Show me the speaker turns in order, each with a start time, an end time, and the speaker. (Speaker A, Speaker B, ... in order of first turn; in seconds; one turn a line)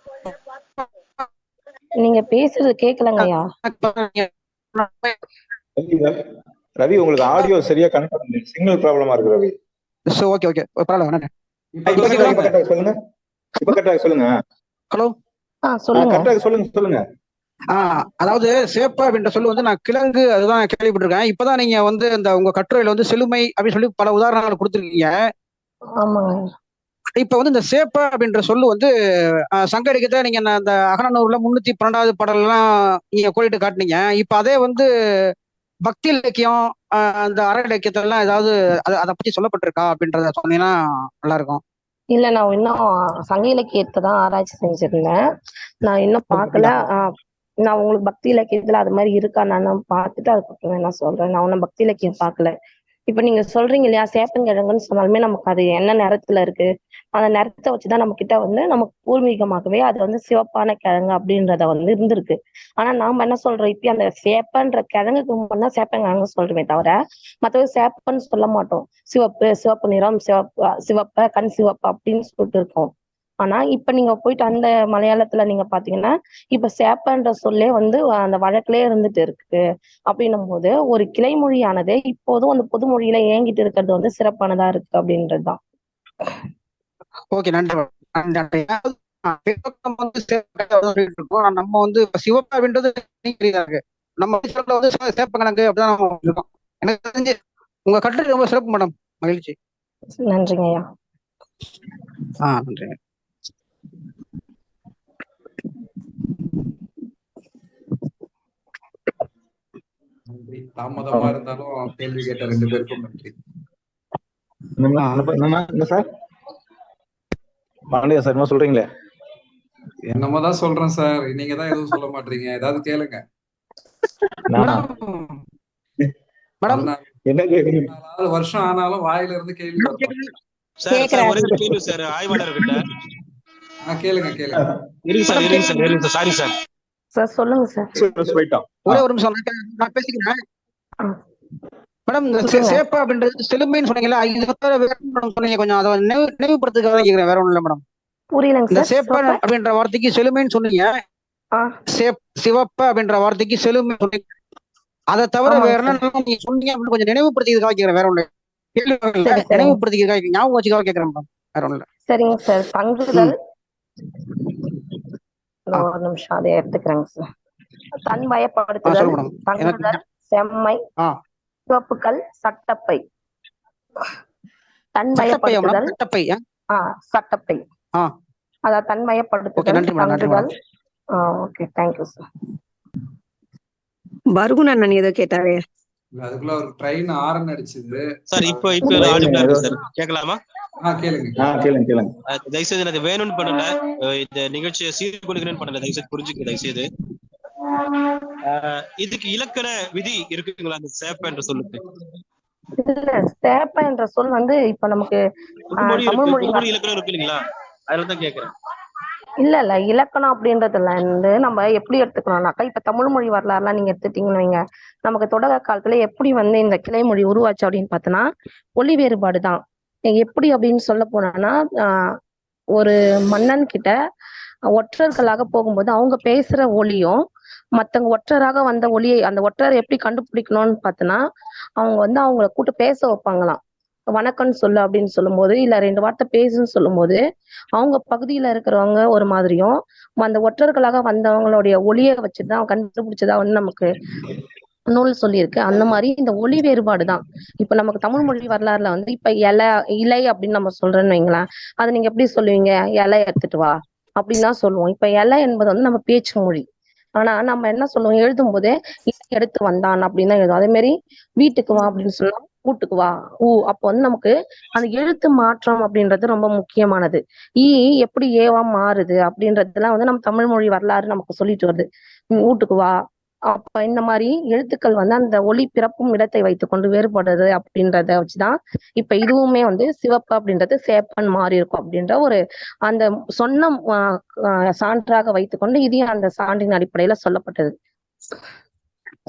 Speaker A: 2.0-3.4
Speaker B: 3.2-5.2
Speaker C: 5.8-6.2
Speaker C: 6.8-9.6
Speaker B: 10.1-11.3
Speaker D: 11.8-12.5
Speaker C: 11.9-12.9
Speaker B: 11.9-12.4
Speaker C: 13.6-14.3
Speaker A: 15.7-16.3
Speaker C: 15.9-17.0
Speaker B: 17.7-25.2
Speaker A: 26.0-26.4
Speaker B: 27.2-28.9
Speaker B: 29.6-34.9
Speaker B: 35.9-41.6
Speaker A: 42.1-45.2
Speaker A: 45.8-47.1
Speaker C: 46.3-46.7
Speaker A: 47.6-52.5
Speaker A: 53.1-72.9
Speaker A: 73.4-85.6
Speaker B: 87.3-99.5
Speaker A: 100.2-100.8
Speaker B: 102.4-103.0
Speaker D: 110.3-113.3
Speaker C: 114.8-116.0
Speaker C: 117.9-118.8
Speaker D: 120.1-123.2
Speaker C: 124.5-124.9
Speaker B: 124.6-125.4
Speaker B: 126.6-126.9
Speaker D: 126.7-127.0
Speaker C: 127.3-127.9
Speaker D: 127.9-130.1
Speaker B: 129.8-130.3
Speaker E: 130.8-132.9
Speaker F: 130.9-131.6
Speaker C: 132.3-132.8
Speaker D: 133.8-134.7
Speaker E: 135.1-136.5
Speaker B: 135.3-136.0
Speaker A: 137.2-138.0
Speaker C: 137.9-139.0
Speaker B: 138.9-140.4
Speaker B: 142.1-147.8
Speaker A: 142.4-142.8
Speaker A: 148.3-149.4
Speaker B: 148.7-151.0
Speaker B: 151.9-154.2
Speaker B: 155.1-161.8
Speaker A: 155.5-156.0
Speaker A: 159.2-159.8
Speaker A: 162.1-163.4
Speaker A: 165.7-167.2
Speaker A: 168.0-170.8
Speaker B: 168.8-170.0
Speaker A: 171.7-173.0
Speaker A: 175.0-175.9
Speaker B: 175.2-176.4
Speaker A: 176.7-177.6
Speaker A: 178.7-180.5
Speaker B: 179.6-180.5
Speaker A: 181.2-182.2
Speaker F: 184.3-185.6
Speaker D: 186.2-188.6
Speaker E: 188.3-190.4
Speaker C: 188.8-189.7
Speaker D: 190.8-191.5
Speaker C: 191.4-192.1
Speaker E: 192.3-196.9
Speaker E: 198.5-201.8
Speaker A: 202.8-205.2
Speaker E: 205.7-208.5
Speaker A: 205.8-206.7
Speaker A: 209.4-218.3
Speaker A: 218.8-222.1
Speaker A: 222.8-223.9
Speaker A: 224.7-227.2
Speaker A: 227.8-231.2
Speaker A: 231.8-233.6
Speaker A: 234.1-237.2
Speaker A: 237.8-243.9
Speaker A: 244.9-256.7
Speaker A: 257.2-271.9
Speaker A: 272.4-272.9
Speaker A: 273.5-284.2
Speaker A: 284.7-287.8